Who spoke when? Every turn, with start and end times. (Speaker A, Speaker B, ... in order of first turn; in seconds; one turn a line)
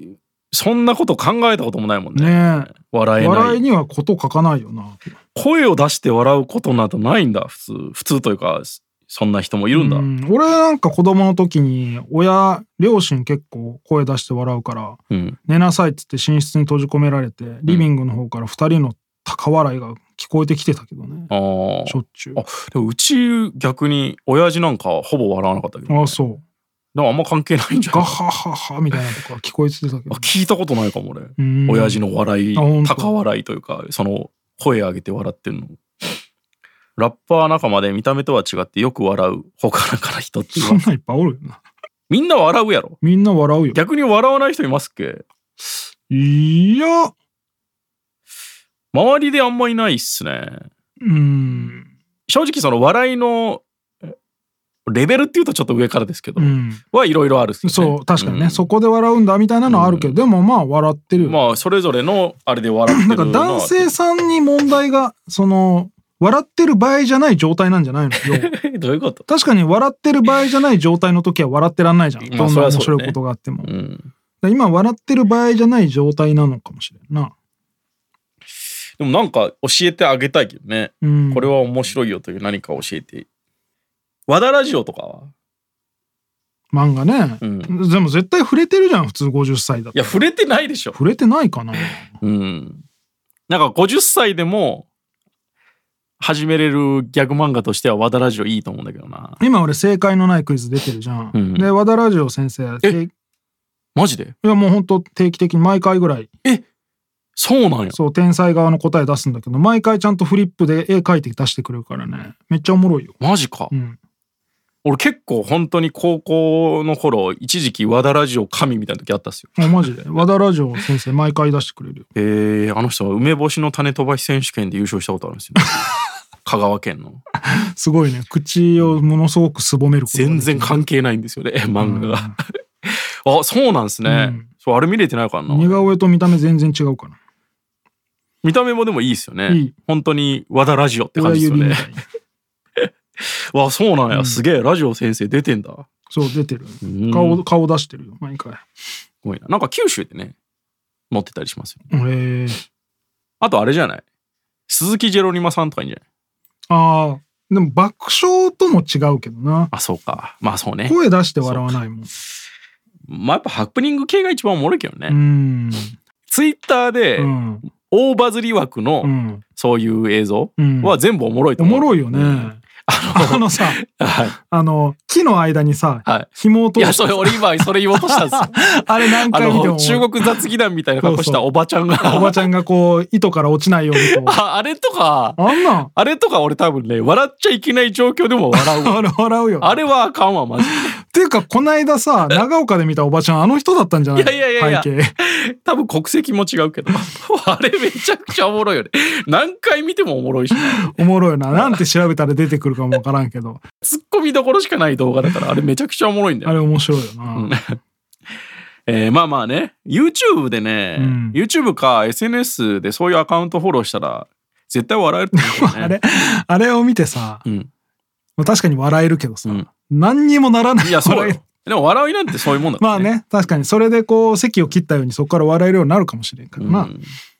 Speaker A: 0.5-3.6
Speaker B: 2.1-5.1
Speaker A: 5.3-10.1
Speaker B: 9.7-21.3
Speaker A: 15.1-15.4
Speaker A: 21.3-26.2
Speaker B: 21.9-22.4
Speaker B: 25.9-26.4
Speaker A: 26.9-28.2
Speaker B: 27.9-30.3
Speaker A: 30.1-35.8
Speaker B: 31.4-32.0
Speaker B: 32.5-33.1
Speaker A: 37.0-40.8
Speaker B: 40.6-41.6
Speaker A: 42.1-43.0
Speaker B: 43.0-43.8
Speaker A: 43.7-45.2
Speaker B: 46.1-47.1
Speaker A: 48.9-50.6
Speaker B: 51.0-51.9
Speaker A: 52.3-53.6
Speaker A: 54.9-58.7
Speaker B: 56.4-56.8
Speaker B: 57.6-61.4
Speaker A: 59.7-60.2
Speaker A: 61.2-63.9
Speaker B: 62.9-68.5
Speaker A: 68.2-69.2
Speaker B: 69.3-73.7
Speaker A: 72.2-74.1
Speaker B: 74.4-77.3
Speaker A: 79.0-83.3
Speaker B: 81.0-81.5
Speaker A: 84.3-85.3
Speaker B: 86.7-90.2
Speaker A: 87.4-87.7
Speaker A: 89.9-91.0
Speaker B: 90.9-92.0
Speaker A: 92.2-92.8
Speaker A: 93.5-94.9
Speaker A: 96.2-99.4
Speaker B: 99.4-103.1
Speaker A: 101.3-101.7
Speaker A: 104.0-104.3
Speaker B: 104.4-106.3
Speaker A: 107.4-108.0
Speaker B: 107.9-113.2
Speaker A: 113.2-113.7
Speaker B: 113.7-114.0
Speaker A: 114.8-119.9
Speaker B: 119.6-122.0
Speaker A: 122.1-125.9
Speaker A: 126.4-127.2
Speaker B: 127.4-130.8
Speaker A: 130.1-135.9
Speaker B: 131.8-132.4
Speaker B: 134.1-134.5
Speaker B: 135.5-137.2
Speaker A: 138.4-141.9
Speaker B: 139.5-139.7
Speaker B: 141.2-142.0
Speaker A: 142.8-145.8
Speaker B: 144.1-144.4
Speaker B: 146.1-148.6
Speaker A: 146.8-147.4
Speaker A: 149.2-150.3
Speaker A: 151.1-151.8
Speaker B: 151.9-152.6
Speaker A: 153.4-154.0
Speaker A: 154.7-156.0
Speaker B: 156.7-159.7
Speaker A: 159.7-161.8
Speaker B: 160.8-162.1
Speaker A: 163.1-165.2
Speaker B: 165.1-165.9
Speaker A: 166.3-174.3
Speaker B: 167.2-167.7
Speaker B: 169.0-169.4
Speaker B: 170.6-171.0
Speaker B: 171.6-172.6
Speaker B: 173.1-173.8
Speaker B: 174.4-180.3
Speaker A: 176.1-182.5
Speaker B: 181.0-184.4
Speaker A: 183.9-189.0
Speaker B: 185.4-185.9
Speaker B: 188.5-189.8
Speaker A: 189.6-190.9
Speaker B: 190.7-195.1
Speaker A: 194.1-200.9
Speaker B: 200.5-203.6
Speaker A: 201.5-201.8
Speaker A: 203.8-206.6
Speaker B: 206.4-207.5
Speaker A: 207.3-207.8
Speaker A: 208.9-215.9
Speaker B: 210.9-211.4
Speaker B: 215.3-217.4
Speaker B: 218.4-221.4
Speaker A: 220.8-223.1
Speaker B: 222.8-226.9
Speaker A: 226.6-227.1